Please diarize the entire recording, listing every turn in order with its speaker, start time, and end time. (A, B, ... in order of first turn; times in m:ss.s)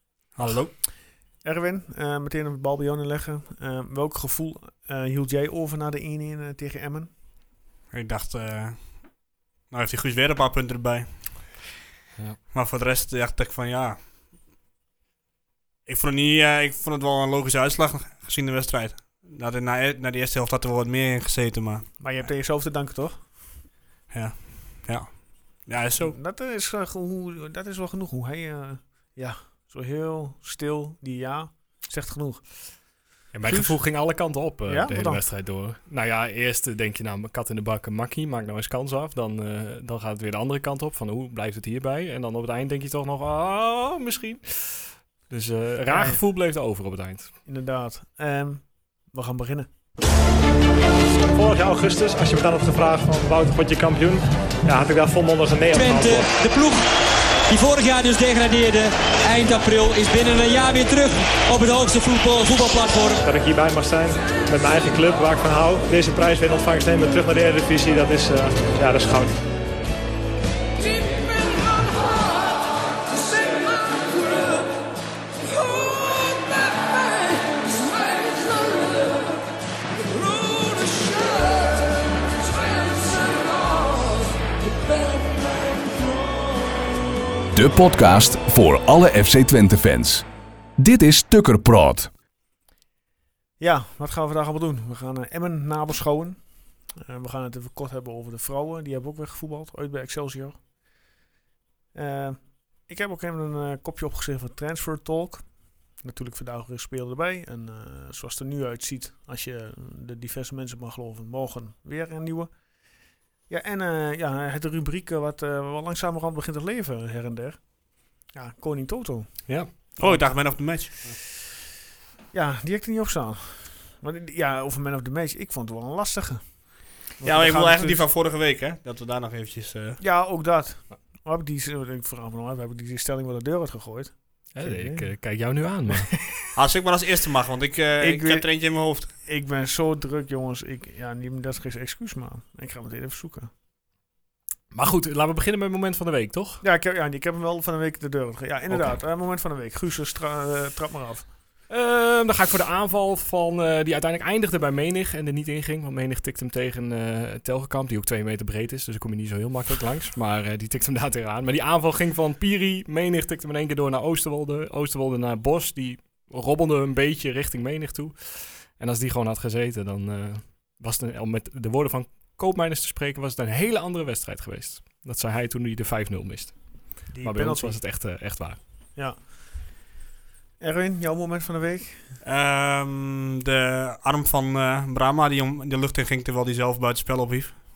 0:00.3-0:00.8 A
0:01.4-0:07.1 B
0:07.9-0:11.6 A
0:12.5-0:14.0 A
0:15.8-0:22.2 A
0:22.0-0:23.2 B
0:24.1-0:26.1 A
0:26.0-0:32.9 B
0:33.3-0:47.3 C
0:33.4-0:33.8 B
0:34.6-0:35.2 B
0:45.9-0:46.2 B
0:47.4-0:49.7 B
0:51.3-0:56.3 D
0:55.7-0:56.8 E
0:57.5-1:03.2 E
1:03.2-1:09.4 D
1:27.5-1:32.1 F
1:33.6-1:40.6 B
1:41.9-1:52.5 B
1:53.5-2:00.6 B
2:00.0-2:01.2 A
2:02.3-2:08.0 B
2:07.2-2:10.0 A
2:10.0-2:15.6 B
2:14.5-2:16.2 C
2:16.5-2:19.1 A
2:18.0-2:23.5 B
2:24.7-2:26.6 C
2:26.6-2:31.3 B
2:28.7-2:29.0 C
2:31.7-2:58.6 C
2:57.1-2:57.8 B
3:00.6-3:02.1 B
3:02.2-3:07.6 A